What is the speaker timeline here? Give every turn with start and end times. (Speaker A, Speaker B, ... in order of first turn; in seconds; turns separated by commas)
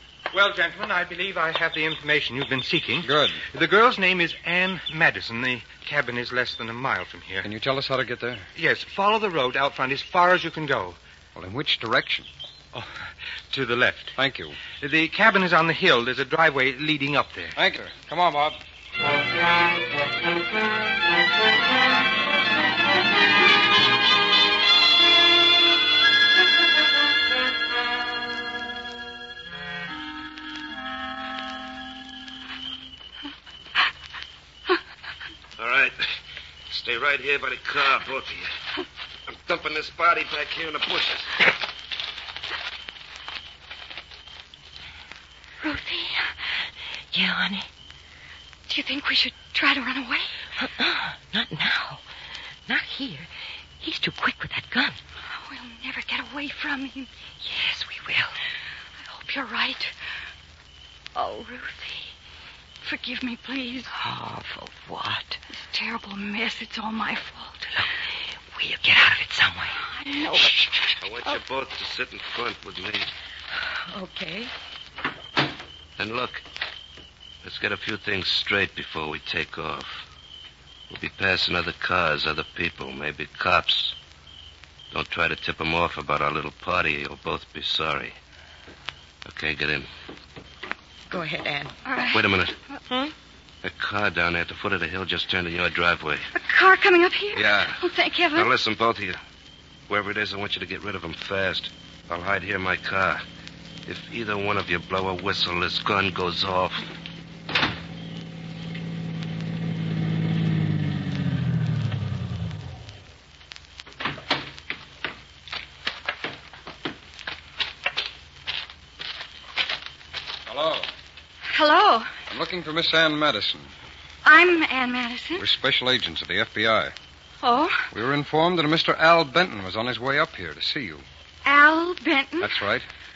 Speaker A: 0.3-7.5, Speaker B: 3.0-3.4, Speaker B: 7.4-8.5, Speaker A: 8.6-11.0, Speaker B: 11.3-12.3, Speaker A: 12.7-14.2, Speaker B: 14.2-14.6, Speaker A: 14.8-17.6, Speaker B: 17.6-18.6, Speaker C: 35.6-36.0, Speaker C: 36.7-38.5, Speaker C: 39.3-41.4, Speaker D: 45.6-46.3, Speaker E: 47.1-47.7, Speaker D: 48.7-50.3, Speaker E: 50.6-52.0, Speaker E: 52.7-53.3, Speaker E: 53.8-55.0, Speaker D: 55.4-57.1, Speaker E: 57.4-58.3, Speaker D: 59.1-59.9, Speaker D: 61.1-62.1, Speaker D: 62.8-63.9, Speaker E: 63.9-65.4, Speaker D: 65.5-67.8, Speaker E: 68.5-70.6, Speaker D: 69.9-71.0, Speaker C: 71.0-73.1, Speaker E: 73.9-74.5, Speaker C: 76.0-76.4, Speaker C: 77.4-80.0, Speaker C: 80.9-84.0, Speaker C: 84.9-88.2, Speaker C: 89.3-89.9, Speaker E: 91.1-91.8, Speaker D: 91.9-92.2, Speaker C: 92.1-92.5, Speaker E: 92.9-93.1, Speaker C: 93.6-96.3, Speaker D: 96.3-98.5, Speaker C: 97.3-97.8, Speaker C: 98.3-99.2, Speaker C: 99.9-103.2, Speaker C: 103.9-106.9, Speaker B: 120.5-120.9, Speaker D: 121.5-122.1, Speaker B: 122.3-123.7, Speaker D: 124.2-125.5, Speaker B: 125.4-127.0, Speaker D: 127.4-127.9, Speaker B: 127.9-131.1, Speaker D: 131.4-132.5, Speaker B: 132.4-132.8